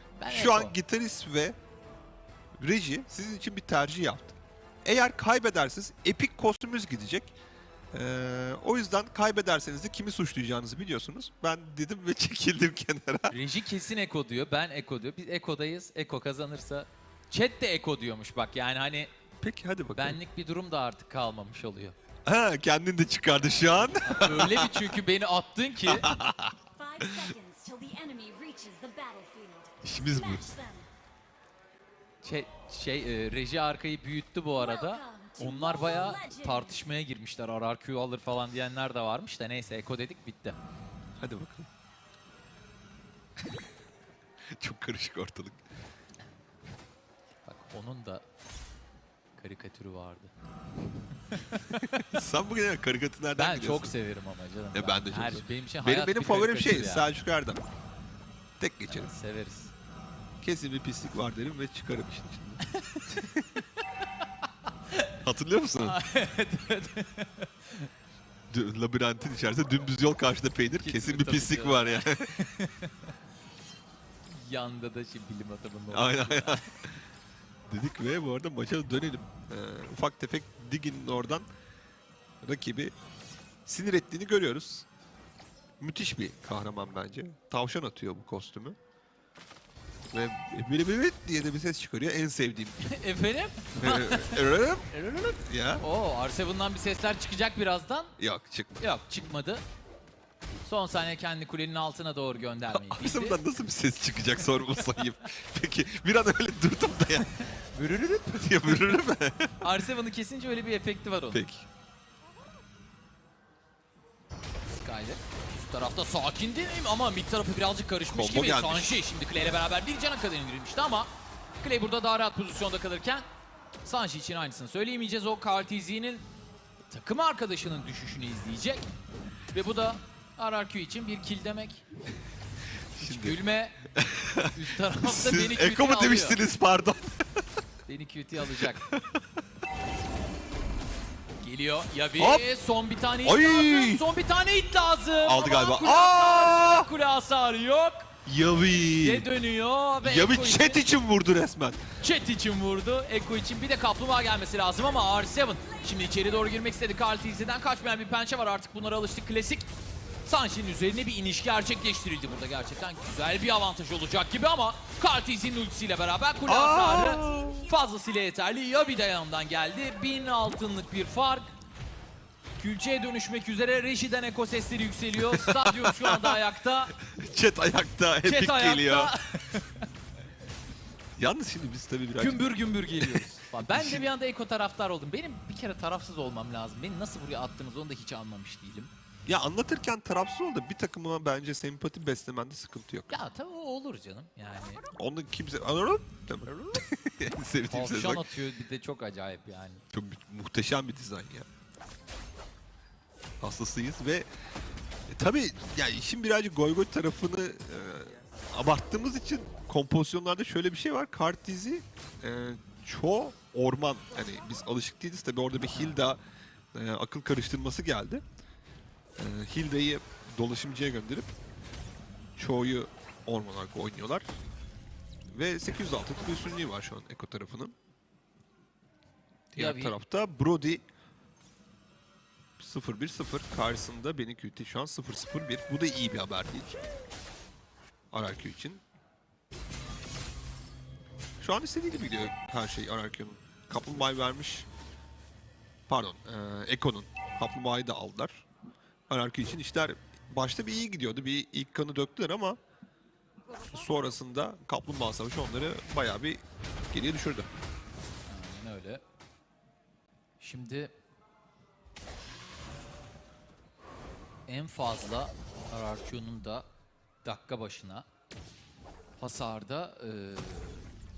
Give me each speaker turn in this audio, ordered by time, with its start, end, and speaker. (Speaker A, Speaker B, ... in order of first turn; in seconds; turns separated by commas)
Speaker A: 0.2-0.8, Speaker B: 0.3-1.6, Speaker B: 2.6-7.3, Speaker B: 7.9-13.3, Speaker A: 13.3-19.1, Speaker B: 19.4-20.2, Speaker A: 19.9-22.0, Speaker B: 22.3-24.9, Speaker A: 24.1-26.1, Speaker B: 25.9-26.6, Speaker C: 26.8-30.9, Speaker B: 27.1-27.3, Speaker B: 29.8-30.5, Speaker A: 32.2-40.6, Speaker C: 34.9-36.6, Speaker B: 41.2-41.7, Speaker B: 44.6-45.6, Speaker A: 47.5-48.2, Speaker A: 49.4-50.3, Speaker A: 51.3-52.2, Speaker B: 52.0-53.9, Speaker A: 53.4-57.1, Speaker B: 54.7-57.6, Speaker B: 58.6-59.1, Speaker A: 58.9-59.7, Speaker B: 60.4-62.6, Speaker A: 62.7-65.2, Speaker B: 63.2-63.4, Speaker B: 65.2-66.0, Speaker A: 65.8-67.9, Speaker B: 68.5-72.3, Speaker A: 70.8-73.1, Speaker A: 74.3-76.6, Speaker B: 75.9-76.9, Speaker B: 77.7-81.5, Speaker B: 82.4-82.9, Speaker B: 83.7-84.9, Speaker B: 85.8-88.8, Speaker B: 90.1-92.8, Speaker A: 92.8-98.1, Speaker B: 93.8-94.9, Speaker B: 95.5-95.8, Speaker B: 98.2-98.8, Speaker A: 98.8-99.6, Speaker A: 100.6-103.4, Speaker B: 102.7-107.3, Speaker A: 107.7-109.0, Speaker B: 108.3-109.5, Speaker A: 109.6-111.4, Speaker B: 111.3-111.7, Speaker A: 114.7-123.3, Speaker B: 118.1-119.0, Speaker A: 123.8-126.2, Speaker A: 126.9-128.9, Speaker A: 129.5-131.8, Speaker B: 132.9-133.4, Speaker A: 133.0-133.9, Speaker B: 133.9-137.4, Speaker A: 134.5-136.4, Speaker A: 137.9-138.8, Speaker B: 138.6-139.2, Speaker A: 141.4-148.1, Speaker B: 142.2-142.4, Speaker B: 143.2-144.1, Speaker B: 145.2-146.9, Speaker B: 148.3-149.3, Speaker A: 149.0-150.8, Speaker B: 150.0-151.8, Speaker A: 152.0-159.7, Speaker A: 160.2-171.5, Speaker B: 166.5-167.7, Speaker A: 172.6-176.9, Speaker B: 175.2-176.4, Speaker B: 177.0-179.1, Speaker A: 178.2-179.9, Speaker B: 181.2-184.1, Speaker A: 182.2-188.9, Speaker B: 189.3-193.2, Speaker A: 193.1-194.8, Speaker B: 195.0-198.3, Speaker A: 196.5-196.8, Speaker A: 197.7-199.8, Speaker B: 199.9-201.5, Speaker B: 203.4-204.3, Speaker B: 205.1-216.2, Speaker A: 215.7-216.0, Speaker B: 216.7-218.2, Speaker B: 219.2-221.3, Speaker B: 222.4-224.3, Speaker B: 225.3-227.7, Speaker A: 229.5-229.9, Speaker B: 229.6-230.8, Speaker B: 232.6-236.7, Speaker B: 238.1-238.8, Speaker B: 241.4-244.7, Speaker A: 241.9-242.3, Speaker B: 245.9-248.5, Speaker B: 249.1-252.6, Speaker B: 253.7-257.5, Speaker A: 258.3-259.0, Speaker A: 260.4-260.9, Speaker A: 264.5-266.7, Speaker A: 267.2-268.1, Speaker A: 269.2-270.9